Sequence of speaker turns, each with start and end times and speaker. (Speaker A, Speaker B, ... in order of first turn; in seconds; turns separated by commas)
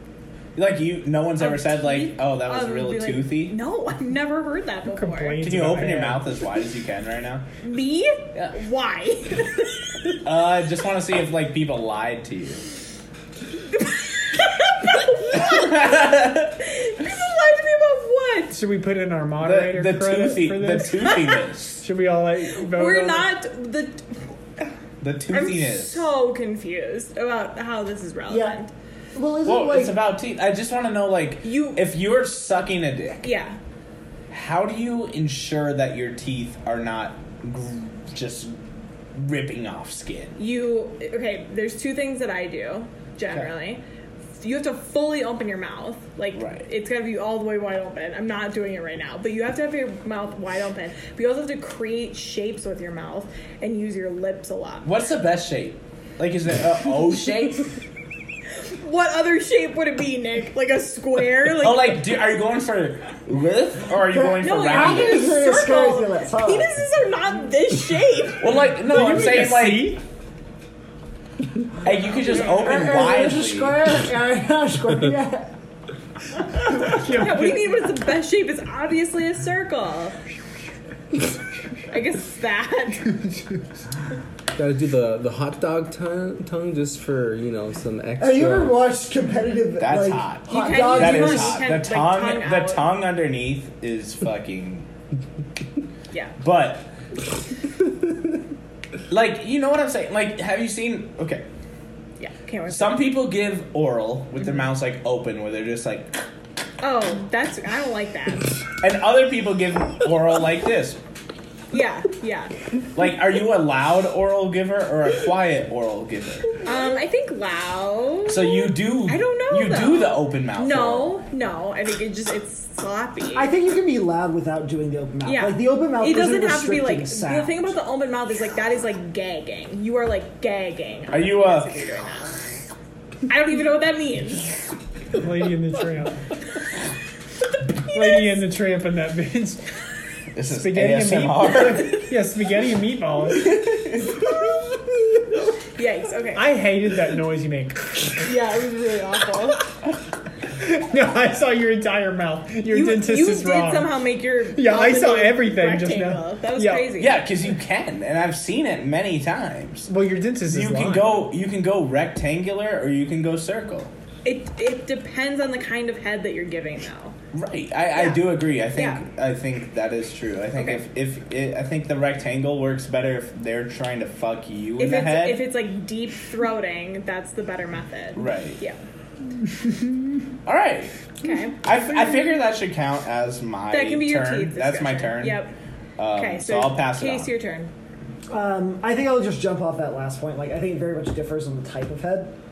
Speaker A: 0.6-3.6, Speaker B: 1.4-5.5, Speaker C: 4.9-6.3, Speaker A: 5.4-7.4, Speaker B: 7.6-10.2, Speaker A: 10.2-12.6, Speaker B: 13.7-16.0, Speaker A: 15.3-16.5, Speaker B: 16.6-18.6, Speaker C: 18.5-21.1, Speaker A: 19.4-21.9, Speaker B: 21.0-21.4, Speaker C: 21.8-23.3, Speaker B: 22.5-24.7, Speaker A: 25.0-26.1, Speaker B: 25.3-28.7, Speaker D: 28.3-28.6, Speaker D: 29.1-30.0, Speaker A: 29.4-33.2, Speaker B: 31.4-31.9, Speaker B: 33.2-33.6, Speaker A: 34.3-38.6, Speaker A: 39.1-40.4, Speaker B: 40.4-43.8, Speaker B: 44.4-54.9, Speaker A: 46.3-46.7, Speaker A: 54.8-57.7, Speaker B: 58.6-62.0, Speaker A: 61.6-65.3, Speaker D: 64.1-66.8, Speaker B: 64.4-68.6, Speaker A: 68.4-70.0, Speaker C: 68.7-70.0, Speaker A: 71.8-73.9, Speaker B: 72.3-72.7, Speaker D: 72.5-75.5, Speaker C: 76.8-77.9, Speaker B: 77.1-80.2, Speaker B: 81.9-83.2, Speaker E: 84.5-88.9, Speaker D: 88.2-91.7, Speaker A: 89.8-94.9, Speaker B: 90.5-92.9, Speaker A: 96.4-96.9, Speaker A: 99.1-101.4, Speaker B: 102.2-103.1, Speaker A: 102.7-106.2, Speaker B: 106.8-108.5, Speaker A: 108.8-111.0, Speaker B: 111.7-112.5, Speaker A: 112.9-116.5, Speaker B: 116.6-123.5, Speaker A: 118.3-121.2, Speaker D: 123.3-127.7, Speaker B: 125.2-132.4, Speaker A: 131.1-131.8, Speaker B: 133.3-134.6, Speaker C: 135.2-136.2, Speaker C: 137.9-139.6, Speaker A: 140.3-142.1, Speaker C: 140.5-143.5, Speaker A: 143.3-144.2, Speaker B: 145.8-146.5, Speaker C: 146.3-148.1, Speaker B: 148.2-149.6, Speaker C: 150.6-154.0, Speaker B: 152.7-157.2, Speaker C: 154.5-156.9, Speaker A: 157.0-159.9, Speaker C: 159.9-161.3, Speaker A: 160.4-163.9, Speaker B: 164.2-167.1, Speaker A: 167.3-175.4, Speaker B: 167.9-169.0, Speaker B: 170.6-170.8, Speaker B: 174.8-178.8, Speaker A: 178.1-178.6, Speaker A: 180.4-180.9, Speaker B: 181.2-181.6, Speaker A: 181.6-185.4, Speaker B: 183.7-185.5, Speaker A: 186.0-187.3, Speaker B: 186.1-187.7, Speaker D: 188.3-192.3